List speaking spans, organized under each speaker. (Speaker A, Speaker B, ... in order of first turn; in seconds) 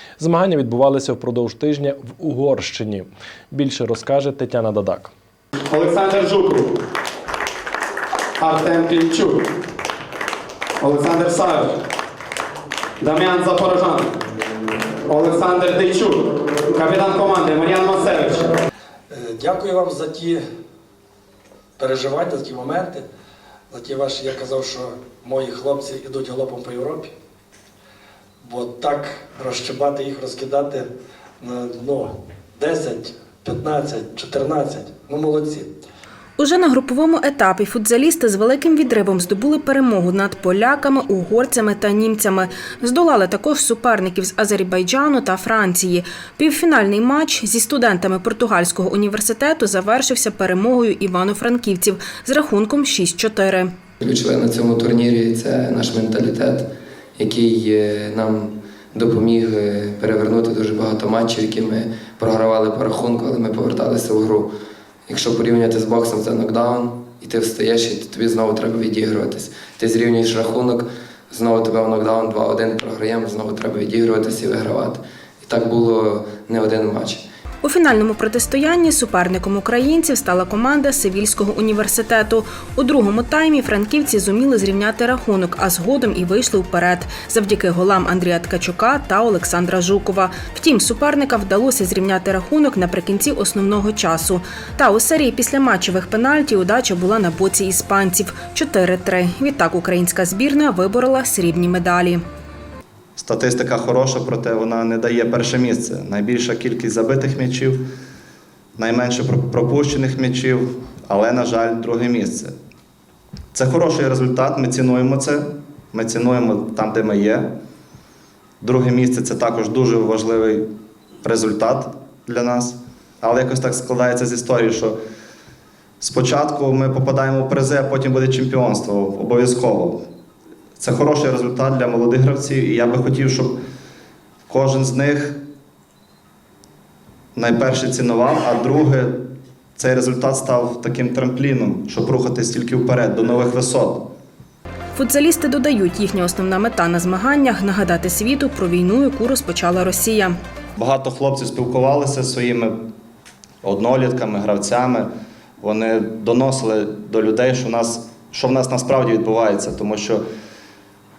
Speaker A: 0.2-5.1
Speaker B: 5.7-6.8, 8.4-9.4, 10.8-11.8, 13.0-14.1, 15.1-18.5
Speaker C: 19.1-20.4, 21.8-23.1, 23.7-27.1, 28.4-30.9, 31.4-35.7
Speaker D: 36.4-53.7, 77.6-102.2, 144.9-150.4
Speaker E: 54.0-64.5, 65.1-77.2
Speaker F: 103.2-107.8, 108.8-112.5, 113.5-117.5, 118.6-120.6, 121.2-125.0, 126.0-130.0, 130.8-133.6, 134.5-135.4, 137.3-139.2, 139.8-144.1, 150.8-152.7, 153.6-155.1, 155.6-160.2